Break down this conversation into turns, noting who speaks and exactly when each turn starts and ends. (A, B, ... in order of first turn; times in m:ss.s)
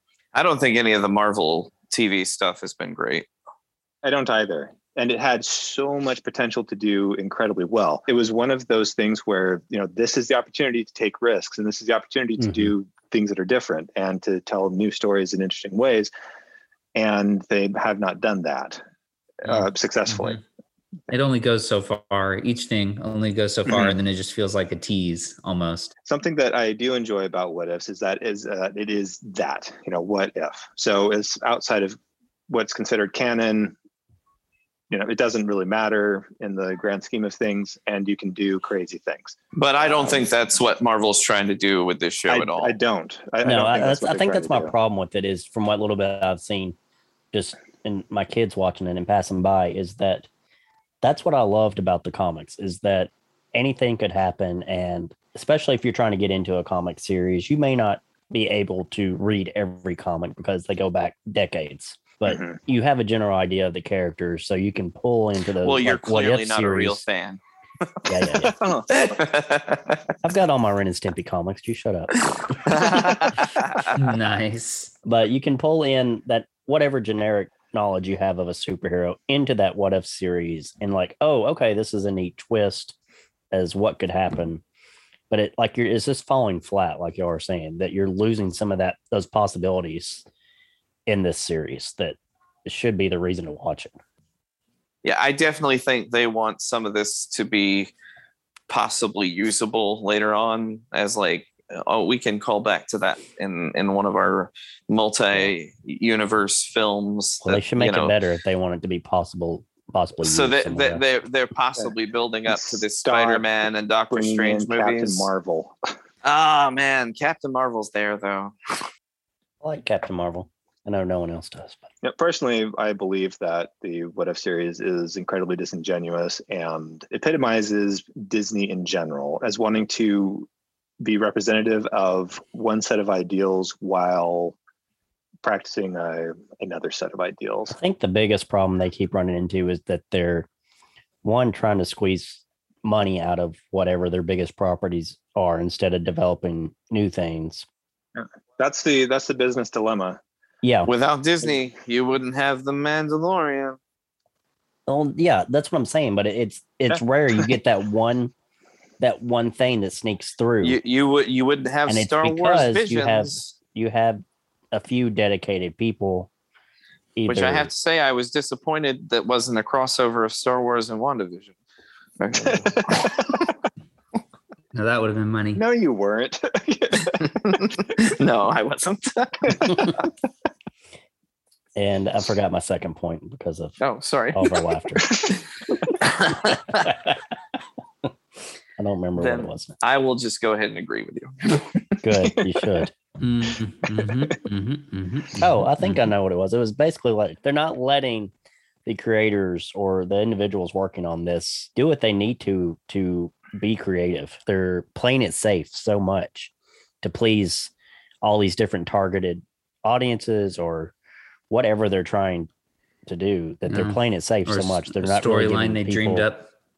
0:00.3-0:03.3 A
0:04.0-0:16.1 B
0:12.4-0:12.7 C
0:17.0-0:18.8 B
0:19.4-0:20.4 B
0:19.4-0:20.4 D
0:21.1-0:25.9 D
0:23.7-0:23.9 B
0:26.1-0:32.0 B
0:32.5-0:33.8 B
0:34.9-0:40.3 B
0:39.5-0:42.8 A
0:42.3-0:44.7 B
0:43.4-0:46.8 C
0:47.3-0:50.3 C
0:51.0-1:07.0 C
1:02.3-1:02.6 B
1:05.6-1:07.4 A
1:08.1-1:08.6 C
1:08.4-1:09.0 B
1:08.9-1:10.0 A
1:10.2-1:12.9 C
1:12.6-1:13.9 A
1:13.9-1:14.9 D
1:15.1-1:23.0 C
1:23.5-1:24.6 C
1:25.3-1:30.2 C
1:31.1-1:34.0 C
1:35.0-1:37.9 A
1:38.7-1:48.2 A
1:47.4-1:51.0 C
1:50.2-1:55.3 A
1:52.5-1:53.5 B
1:54.1-1:55.8 B
1:56.2-1:58.9 A
1:59.6-2:01.9 C
2:02.0-2:10.5 B
2:11.0-2:14.6 B
2:15.4-2:17.8 B
2:17.7-2:20.5 C
2:21.2-2:27.7 C
2:28.2-2:30.2 B
2:30.6-2:30.9 C
2:30.9-2:33.8 A
2:34.9-2:38.3 C
2:39.0-2:40.8 C
2:40.6-2:43.5 A
2:41.9-2:46.3 C
2:47.2-2:47.7 C
2:47.3-2:51.5 A
2:52.2-2:53.5 A
2:52.5-2:53.4 B
2:54.7-2:55.6 D
2:55.6-2:57.7 B
2:57.5-3:00.0 A
3:01.8-3:03.8 C
3:03.8-3:05.3 A
3:04.3-3:05.3 C
3:05.9-3:06.9 A
3:06.7-3:07.2 C
3:08.8-3:09.8 C
3:09.2-3:12.0 A
3:12.0-3:12.9 C
3:13.2-3:16.1 D
3:15.4-3:18.3 C
3:18.9-3:26.5 C
3:27.0-3:27.7 C
3:28.2-3:30.9 C
3:31.5-3:32.5 C
3:33.1-3:36.3 C
3:33.7-3:36.5 D